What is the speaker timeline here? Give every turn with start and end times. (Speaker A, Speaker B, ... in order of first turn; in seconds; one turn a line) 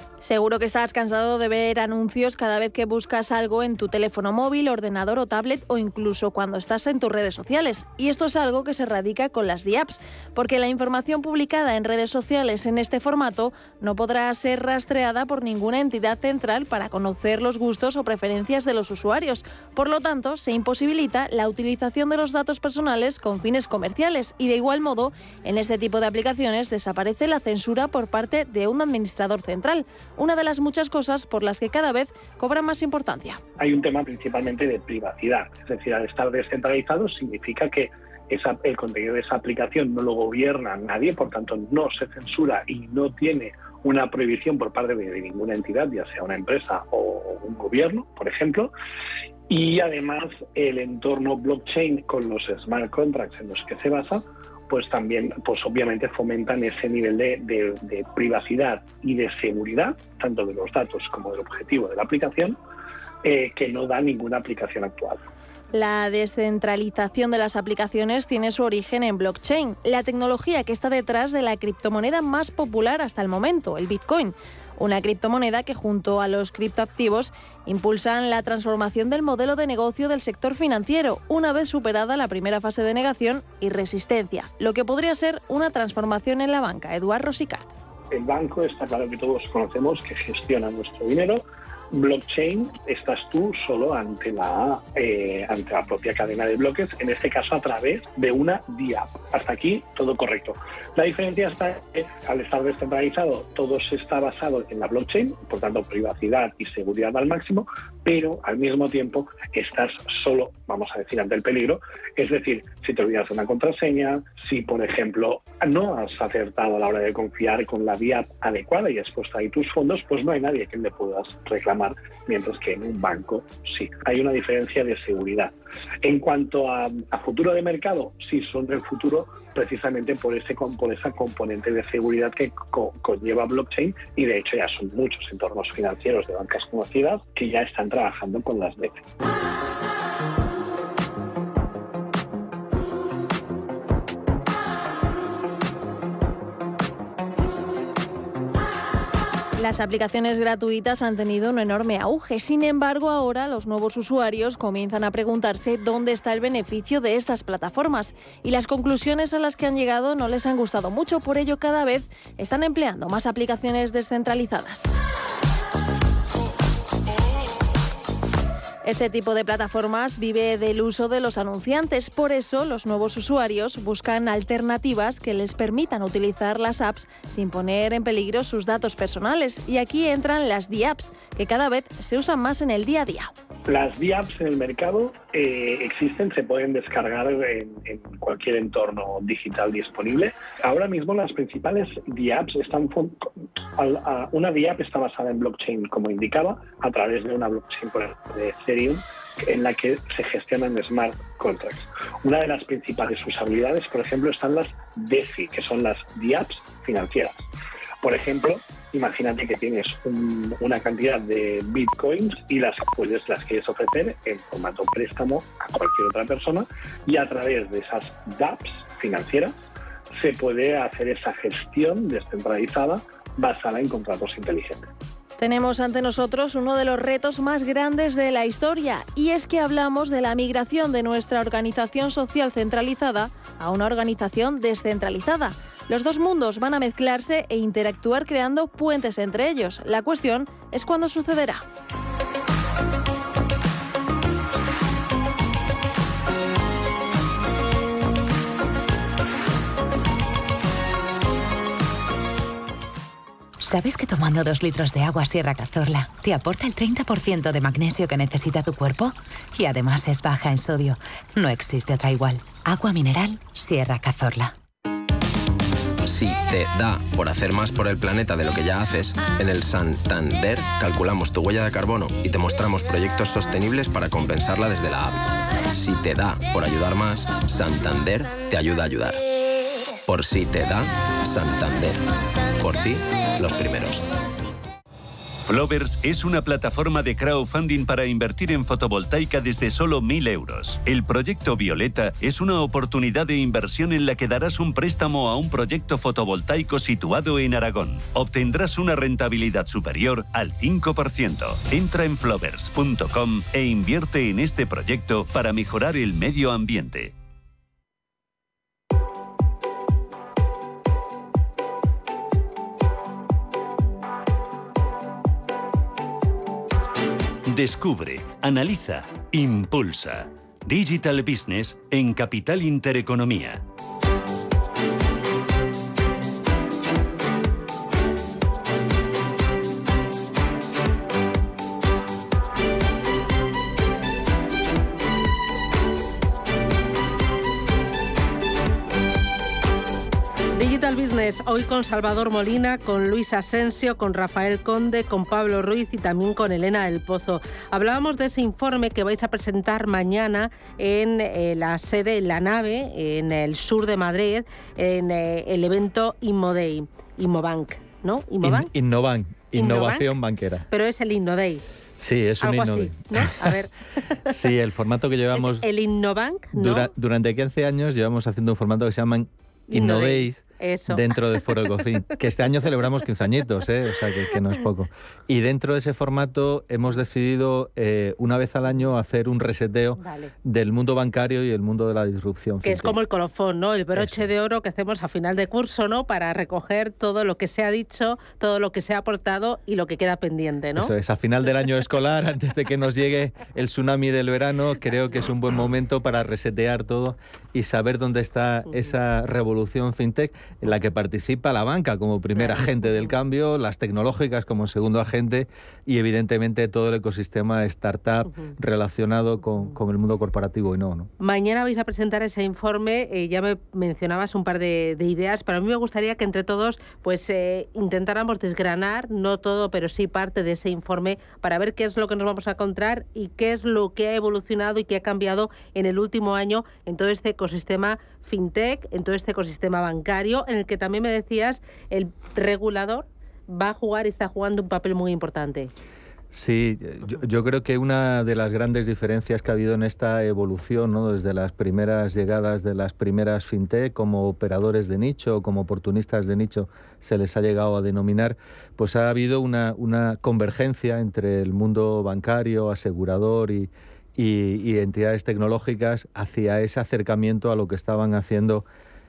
Speaker A: 0.2-33.4
Speaker B: 33.6-48.7
Speaker B: 49.5-62.6
Speaker B: 63.2-65.2
Speaker A: 65.7-87.7
Speaker B: 88.1-139.1
Speaker A: 149.6-164.9
Speaker A: 168.8-183.3
Speaker B: 183.7-207.5
Speaker B: 208.0-219.5
Speaker B: 220.2-224.9
Speaker A: 225.4-241.7
Speaker C: 253.6-264.5
Speaker D: 266.1-279.2
Speaker D: 280.1-282.0
Speaker D: 282.6-284.1
Speaker E: 285.5-307.1
Speaker E: 317.5-323.6
Speaker F: 340.6-358.7
Speaker G: 358.4-360.7
Speaker F: 359.6-360.1
Speaker F: 360.7-361.6
Speaker G: 362.0-363.5
Speaker F: 362.4-363.7
Speaker G: 364.3-365.6
Speaker F: 365.4-366.9
Speaker G: 366.5-383.0
Speaker F: 369.7-371.2
Speaker F: 380.0-380.3
Speaker F: 382.6-390.9
Speaker G: 383.9-384.3
Speaker G: 390.8-411.1
Speaker F: 402.4-402.7
Speaker F: 411.2-435.7
Speaker G: 436.3-458.6